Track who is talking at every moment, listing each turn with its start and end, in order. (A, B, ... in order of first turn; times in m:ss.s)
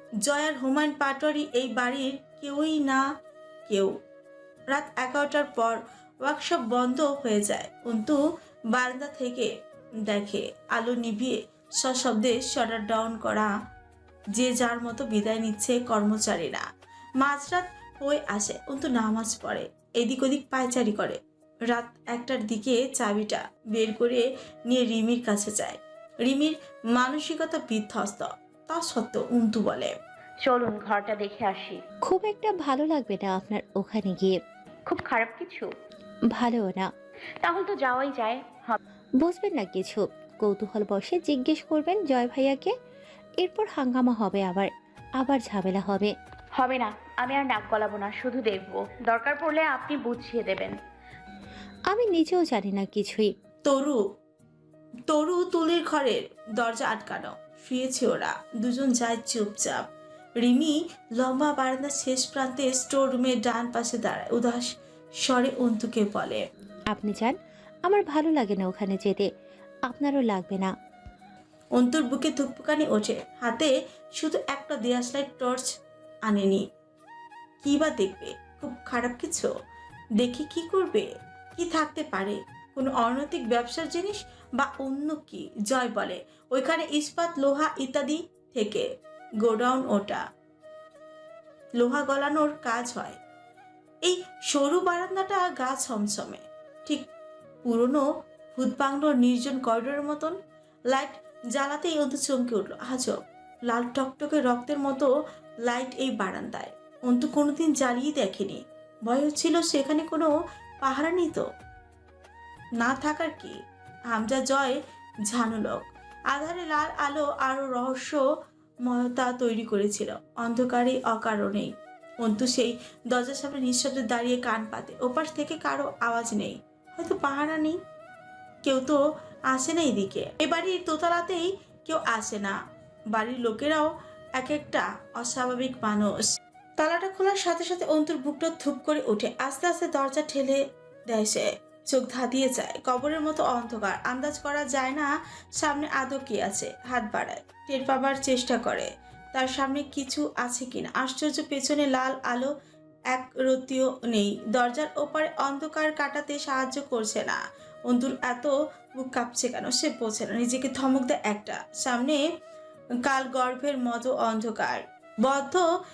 0:00.2-0:03.1 A
0:03.7-0:04.0 A
0:04.7-0:09.5 A
0:10.1-0:13.5 A
0:14.3-0:16.7 A
0:17.2-0:21.2 A
0:21.7-0:30.0 A
0:30.4-0:31.8 B
0:32.0-0:34.4 C
0:34.9-0:35.7 B
0:36.3-0:36.9 C
0:37.4-0:38.8 B
0:39.2-0:42.7 C
0:43.4-0:46.1 C
0:46.6-0:50.8 B
0:51.9-0:53.3 C
0:53.7-0:54.0 A
0:55.1-0:59.9 A
1:00.4-1:06.4 A
1:06.9-1:09.3 C
1:09.9-1:10.7 C
1:11.8-1:15.7 A
1:16.3-1:16.7 A
1:17.6-1:19.5 A
1:20.2-1:28.9 A
1:29.4-1:30.2 A
1:31.8-1:33.2 A
1:34.0-1:37.1 A
1:37.6-1:40.4 A
1:40.9-1:45.1 A
1:45.7-1:50.3 A
1:50.8-1:51.5 A
1:52.8-1:53.6 A
1:54.1-1:58.2 A
1:58.8-2:07.8 A
2:08.6-2:12.6 A
2:13.1-2:16.2 A
2:16.8-2:32.5 A
2:33.1-2:42.2 A
2:43.0-2:45.7 A